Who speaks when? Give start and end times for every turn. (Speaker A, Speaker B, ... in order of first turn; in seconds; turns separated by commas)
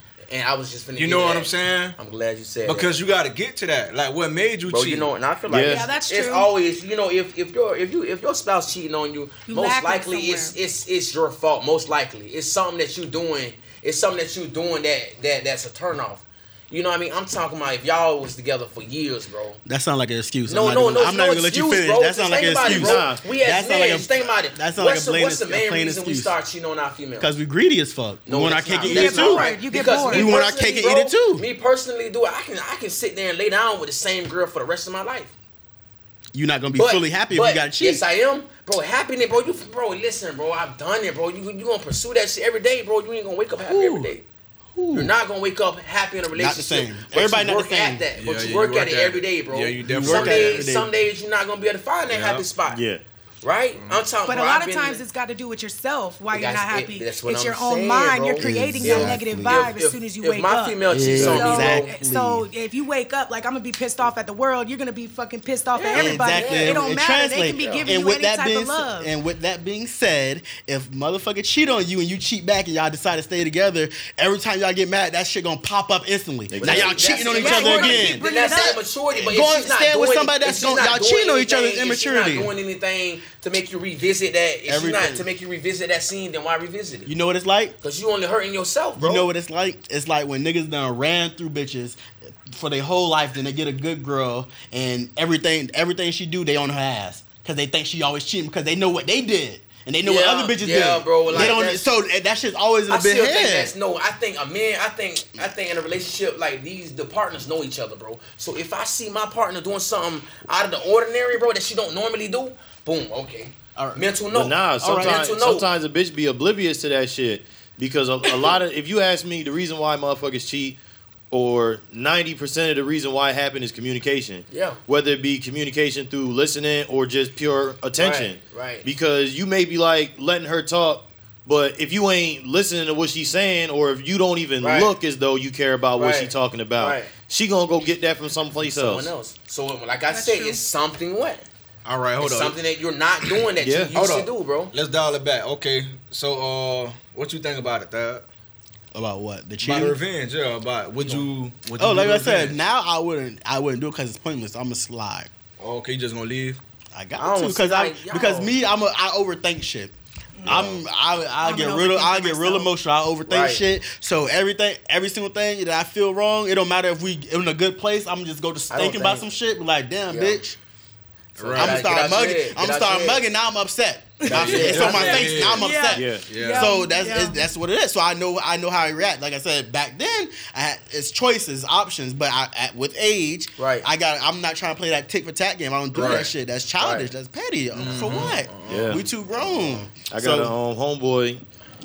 Speaker A: 0.3-2.9, Speaker B: 0.9-2.0, Speaker B: 2.6-5.1, Speaker A: 4.7-19.6, Speaker C: 5.5-5.9, Speaker D: 5.7-6.5, Speaker D: 9.5-10.6, Speaker E: 19.6-26.3, Speaker A: 20.5-27.3, Speaker C: 22.6-23.2, Speaker E: 27.2-29.5, Speaker A: 28.3-35.3, Speaker D: 28.8-30.4, Speaker E: 30.1-31.5, Speaker E: 36.3-38.0, Speaker A: 36.8-44.2, Speaker E: 43.6-44.1, Speaker E: 44.8-45.1, Speaker A: 44.9-52.8, Speaker E: 46.3-48.0, Speaker B: 48.2-50.6, Speaker E: 49.8-50.9, Speaker B: 52.1-52.4, Speaker C: 52.7-53.0, Speaker A: 53.4-55.0, Speaker B: 53.8-54.0, Speaker D: 54.3-69.1, Speaker A: 56.3-62.0, Speaker E: 58.4-59.6, Speaker E: 60.9-62.5, Speaker C: 61.2-61.5, Speaker A: 65.7-67.0, Speaker E: 65.9-82.5, Speaker A: 67.5-68.0, Speaker C: 76.5-77.2, Speaker A: 76.6-87.1, Speaker D: 77.2-78.8, Speaker E: 84.7-85.3, Speaker E: 87.1-87.8, Speaker A: 87.8-89.3, Speaker E: 89.0-103.7, Speaker A: 100.0-101.9, Speaker A: 102.9-115.7, Speaker E: 113.8-114.2, Speaker C: 114.3-120.8, Speaker E: 114.8-115.2, Speaker C: 121.3-139.1, Speaker A: 124.5-124.8, Speaker A: 128.0-128.9, Speaker A: 134.6-134.9, Speaker A: 136.0-137.1, Speaker A: 138.6-141.4, Speaker D: 140.1-140.6, Speaker B: 141.8-142.6, Speaker A: 142.2-144.7, Speaker C: 143.6-143.9, Speaker B: 143.9-148.2, Speaker E: 148.9-150.0, Speaker B: 149.6-152.6, Speaker E: 151.8-155.3, Speaker B: 155.6-156.6, Speaker E: 156.9-159.9, Speaker A: 157.2-158.5, Speaker D: 160.4-160.7, Speaker E: 160.4-170.6, Speaker A: 160.5-160.8, Speaker D: 161.4-162.7, Speaker A: 163.3-163.6, Speaker A: 168.7-169.3, Speaker A: 170.1-170.4, Speaker A: 171.4-173.3, Speaker B: 171.4-171.9, Speaker E: 171.6-190.5, Speaker A: 174.2-175.5, Speaker B: 174.3-176.7, Speaker D: 175.6-177.4, Speaker C: 175.9-176.3, Speaker A: 183.6-183.9, Speaker B: 185.9-186.3, Speaker A: 186.8-187.1, Speaker B: 187.8-189.0, Speaker A: 187.8-188.7, Speaker C: 188.7-189.0, Speaker C: 190.1-191.4